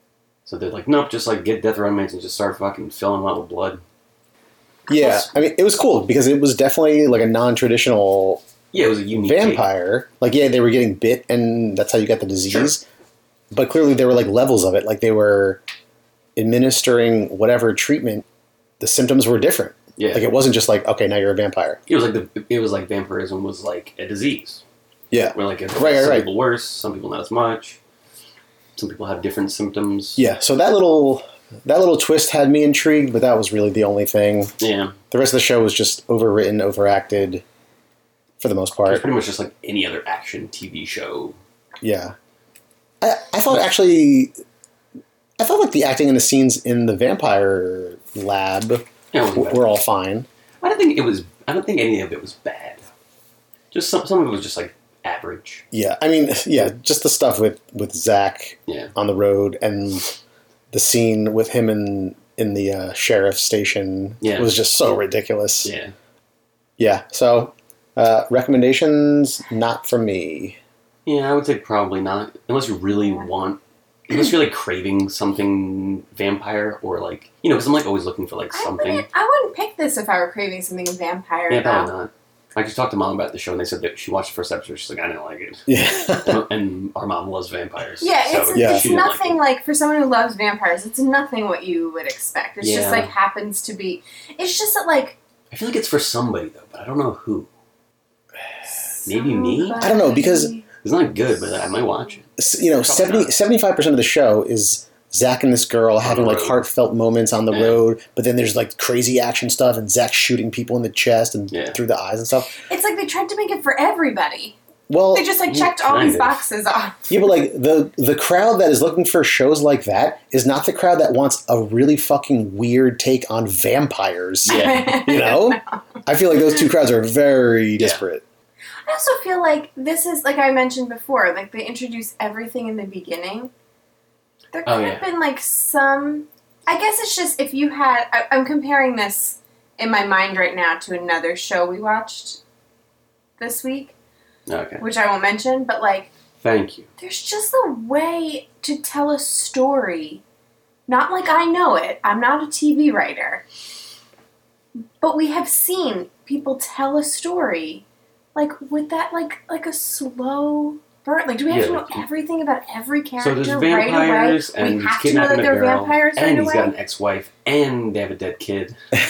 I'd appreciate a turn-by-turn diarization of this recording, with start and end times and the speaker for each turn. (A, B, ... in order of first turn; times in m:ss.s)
0:00.4-0:03.8 A
0:04.9-0:08.4 B
0:08.7-0:09.6 A
0:09.2-0:12.8 B
0:12.5-0:12.7 A
0:13.5-0:15.6 B
0:16.4-0:18.2 B
0:18.8-0:21.8 B
0:20.0-0:20.3 A
0:21.9-0:24.6 A
0:25.1-0:26.3 B
0:25.3-0:27.8 A
0:28.8-0:30.2 A
0:30.2-0:34.5 B
0:34.6-0:35.0 A
0:35.1-0:37.4 B
0:38.4-0:39.0 B
0:38.8-0:41.4 A
0:41.8-0:42.1 B
0:43.0-0:44.3 B
0:45.4-0:50.3 B
0:49.1-0:49.6 A
0:50.6-0:52.8 A
0:53.7-0:55.6 A
0:55.7-1:00.1 B
0:58.7-0:58.9 A
1:00.7-1:05.7 B
1:04.2-1:04.5 A
1:05.6-1:05.9 A
1:06.8-1:10.6 B
1:11.0-1:19.0 A
1:18.5-1:21.9 C
1:21.5-1:29.4 A
1:25.7-1:26.4 B
1:28.0-1:35.2 C
1:28.5-1:28.9 B
1:32.6-1:33.1 A
1:35.5-1:37.5 A
1:38.8-1:40.6 C
1:39.0-1:39.9 A
1:39.8-1:40.5 B
1:40.8-1:42.3 A
1:42.4-1:52.6 B
1:42.8-1:43.3 A
1:46.0-1:46.6 A
1:47.5-1:47.8 A
1:51.5-1:51.8 A
1:52.7-1:54.6 C
1:54.9-1:55.3 B
1:55.1-1:57.1 C
1:55.4-1:56.4 A
1:57.1-2:08.2 B
2:04.4-2:05.0 A
2:04.4-2:05.8 C
2:08.8-2:13.5 C
2:14.5-2:22.4 C
2:14.6-2:15.0 A
2:23.4-2:23.9 C
2:24.5-2:24.8 A
2:24.8-2:26.1 C
2:26.4-2:26.9 A
2:27.0-2:30.2 C
2:30.9-2:33.4 C
2:35.0-2:46.7 C
2:41.5-2:42.0 A
2:43.2-2:48.8 A